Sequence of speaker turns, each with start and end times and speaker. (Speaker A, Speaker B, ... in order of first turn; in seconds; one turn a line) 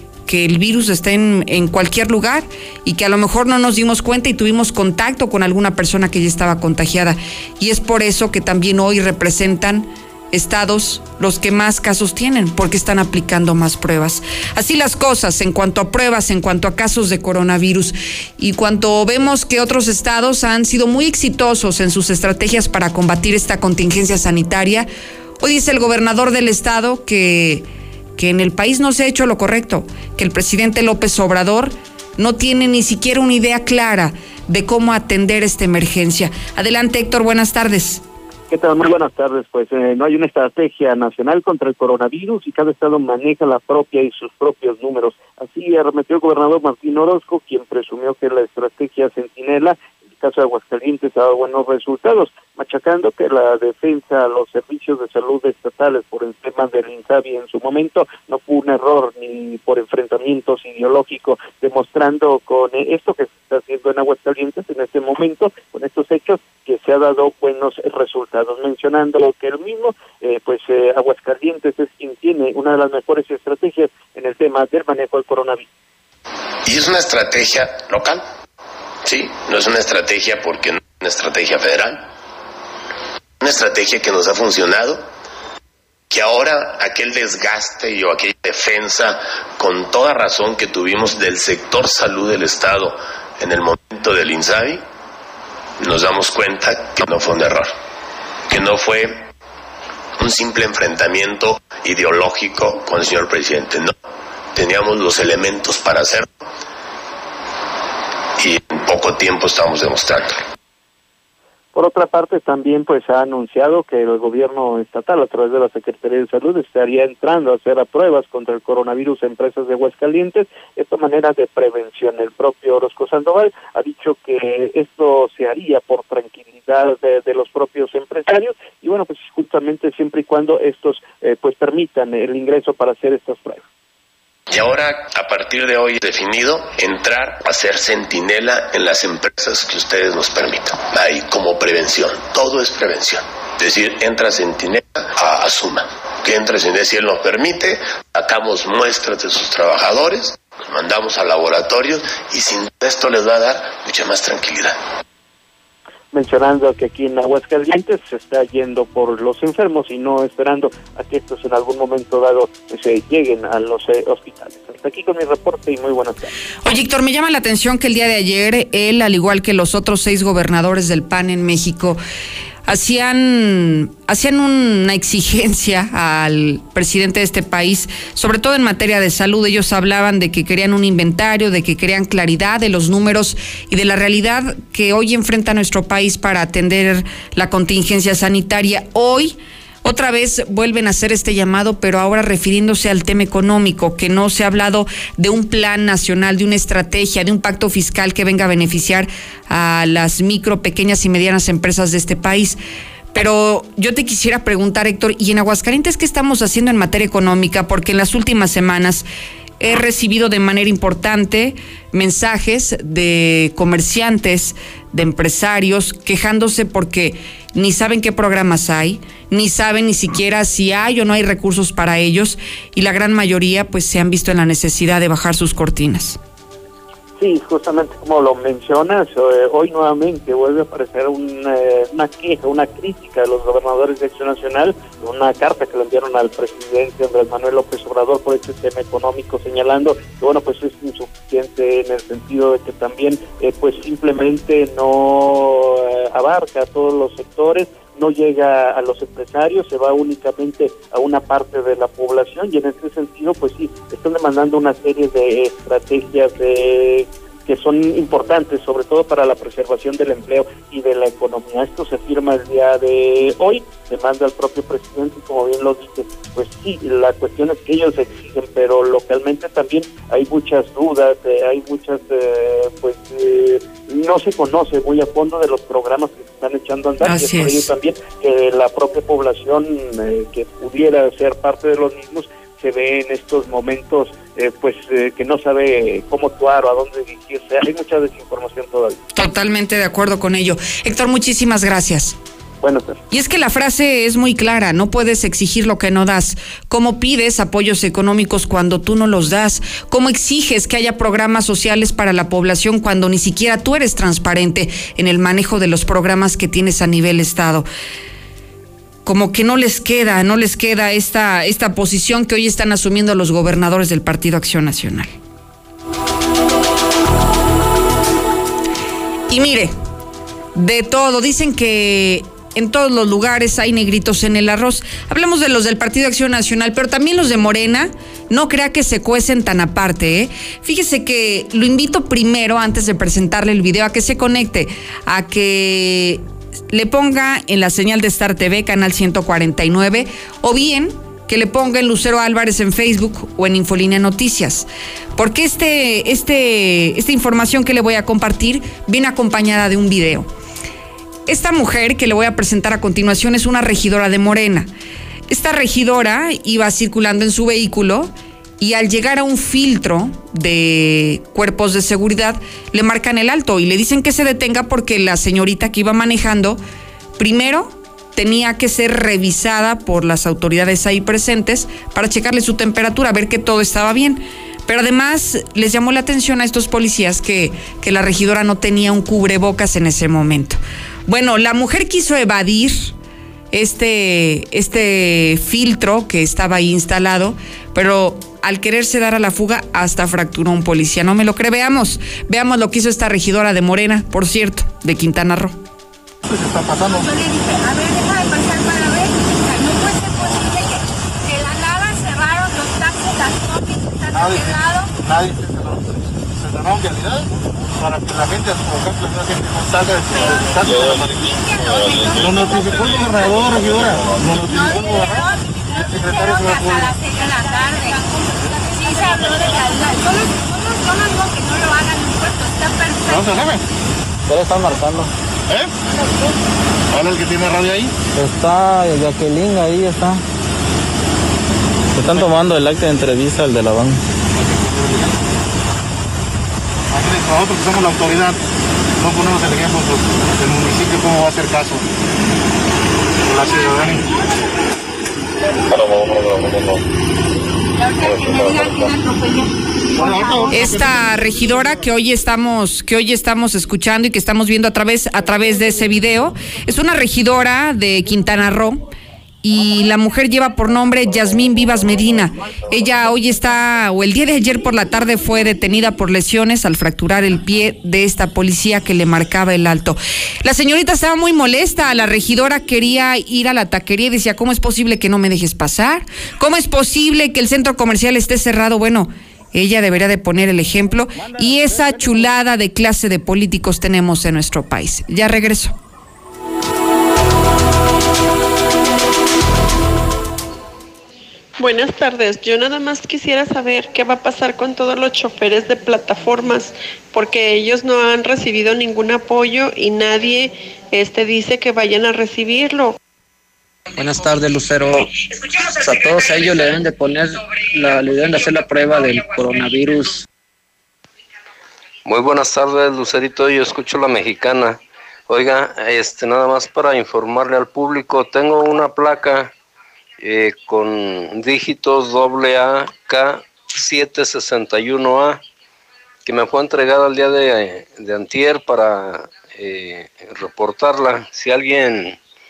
Speaker A: 0.3-24.9
Speaker A: 25.4-27.6
Speaker A: 28.2-38.0
Speaker B: 38.5-75.7
Speaker C: 76.6-78.2
Speaker C: 79.0-82.1
Speaker C: 83.4-85.0
Speaker C: 86.1-94.8
Speaker C: 95.8-97.7
Speaker C: 98.5-99.2
Speaker C: 100.2-103.9
Speaker C: 104.5-106.3
Speaker C: 108.4-110.4
Speaker B: 111.7-133.6
Speaker C: 134.5-154.8
Speaker B: 156.1-166.3
Speaker A: 166.6-172.0
Speaker A: 172.7-202.6
Speaker A: 203.1-209.0
Speaker A: 209.6-226.2
Speaker B: 227.2-289.0
Speaker A: 277.0-277.7
Speaker A: 289.1-292.1
Speaker B: 292.6-293.0
Speaker A: 293.1-307.6
Speaker A: 309.0-315.1
Speaker A: 319.3-319.7
Speaker A: 320.5-350.3
Speaker A: 351.3-354.7
Speaker A: 355.3-366.6
Speaker A: 367.2-382.9
Speaker A: 383.5-395.6
Speaker D: 396.3-397.1
Speaker E: 396.9-404.9
Speaker D: 404.1-411.2
Speaker E: 410.1-413.4
Speaker D: 412.1-416.9
Speaker E: 414.4-423.3
Speaker D: 423.1-423.6
Speaker F: 424.3-425.1
Speaker D: 425.5-425.7
Speaker D: 426.9-427.9
Speaker F: 428.1-430.2
Speaker F: 432.0-434.0
Speaker D: 432.0-432.4
Speaker D: 434.4-435.2
Speaker D: 436.9-438.4
Speaker D: 439.0-441.8
Speaker D: 443.3-444.1
Speaker E: 443.4-444.6
Speaker E: 447.8-450.9
Speaker D: 449.9-451.1
Speaker A: 450.5-458.8
Speaker A: 459.4-485.7
Speaker G: 491.6-502.9
Speaker F: 504.0-504.8
Speaker F: 505.9-510.2
Speaker H: 512.0-519.5
Speaker H: 520.2-525.4
Speaker H: 526.2-532.2